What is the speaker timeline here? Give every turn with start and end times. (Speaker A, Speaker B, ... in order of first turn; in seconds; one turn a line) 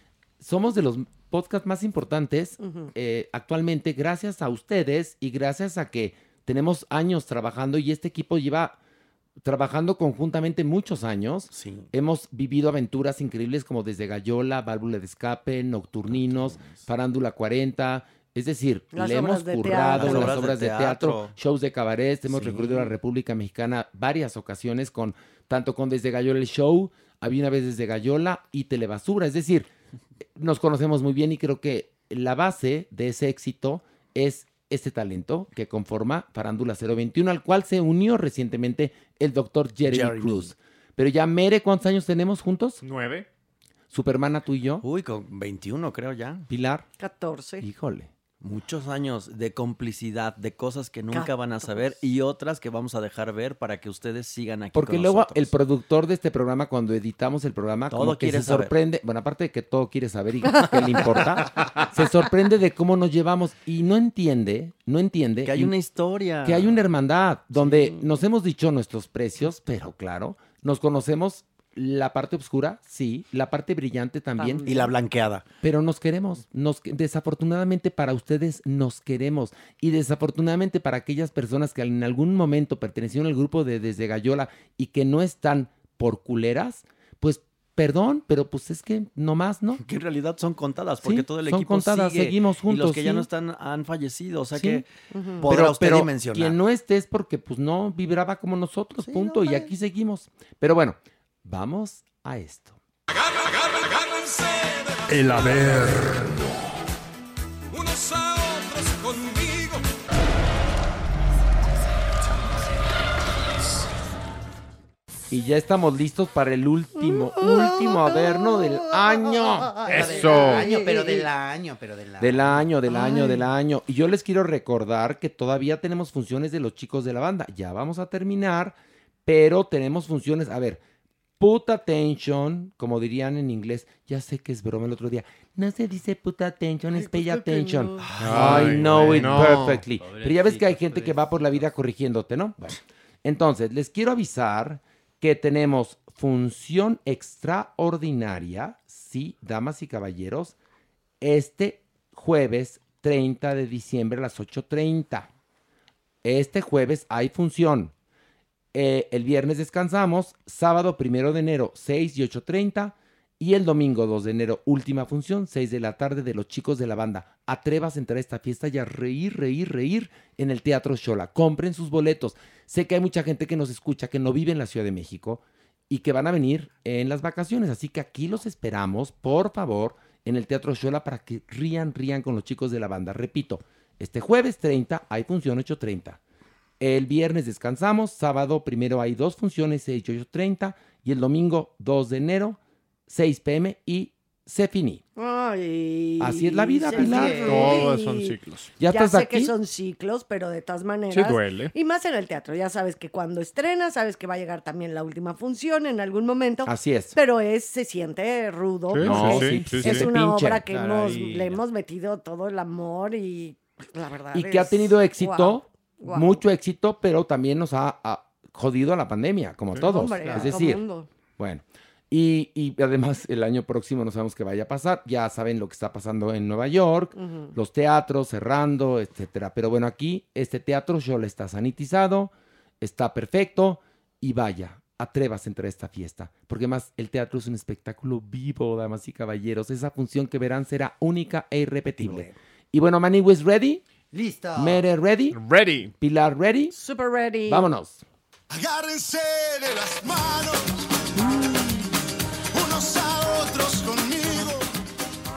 Speaker A: 0.4-8.8
Speaker B: 2.6-2.9
Speaker A: 9.4-29.7
Speaker C: 11.5-11.9
Speaker C: 16.3-16.8
Speaker B: 18.9-20.4
Speaker C: 19.9-21.3
Speaker C: 22.3-22.9
Speaker A: 30.4-42.8
Speaker C: 39.8-40.5
Speaker D: 42.8-43.2
Speaker A: 43.9-44.8
Speaker C: 44.8-46.5
Speaker A: 46.5-46.9
Speaker B: 47.0-47.6
Speaker A: 47.6-48.1
Speaker C: 48.4-55.5
Speaker B: 51.1-51.8
Speaker A: 54.7-65.7
Speaker C: 57.9-58.7
Speaker B: 60.5-61.2
Speaker C: 65.4-66.8
Speaker A: 66.4-74.7
Speaker C: 67.6-68.0
Speaker B: 74.4-74.9
Speaker C: 74.6-75.4
Speaker A: 75.6-89.8
Speaker C: 89.8-94.8
Speaker A: 91.0-93.3
Speaker A: 94.5-94.8
Speaker B: 95.1-95.4
Speaker C: 95.4-96.6
Speaker A: 95.5-102.8
Speaker C: 99.0-99.7
Speaker E: 103.6-104.5
Speaker E: 105.1-106.7
Speaker E: 107.8-109.8
Speaker A: 115.3-119.8
Speaker B: 117.0-121.2
Speaker F: 119.8-122.7
Speaker D: 119.9-120.7
Speaker C: 120.0-121.2
Speaker A: 122.2-130.8
Speaker A: 131.4-150.5
Speaker B: 136.9-138.1
Speaker F: 138.1-141.7
Speaker C: 138.2-138.8
Speaker D: 138.2-139.8
Speaker A: 151.2-155.3
Speaker A: 156.2-157.9
Speaker A: 158.7-186.2
Speaker A: 186.8-195.0
Speaker B: 195.2-198.3
Speaker A: 196.2-197.8
Speaker F: 196.9-197.8
Speaker D: 197.4-198.7
Speaker A: 198.8-199.5
Speaker B: 198.9-216.4
Speaker D: 201.1-201.7
Speaker A: 206.6-207.2
Speaker D: 208.9-210.1
Speaker A: 209.0-210.6
Speaker F: 210.7-211.6
Speaker A: 214.3-220.8
Speaker B: 219.8-221.1
Speaker F: 220.2-220.6
Speaker A: 221.4-243.8
Speaker B: 227.2-227.5
Speaker C: 242.0-242.3
Speaker F: 244.1-244.8
Speaker A: 244.6-245.4
Speaker D: 245.3-245.9
Speaker A: 246.0-246.7
Speaker B: 246.7-247.7
Speaker A: 247.5-248.0
Speaker E: 248.5-251.8
Speaker E: 252.5-254.7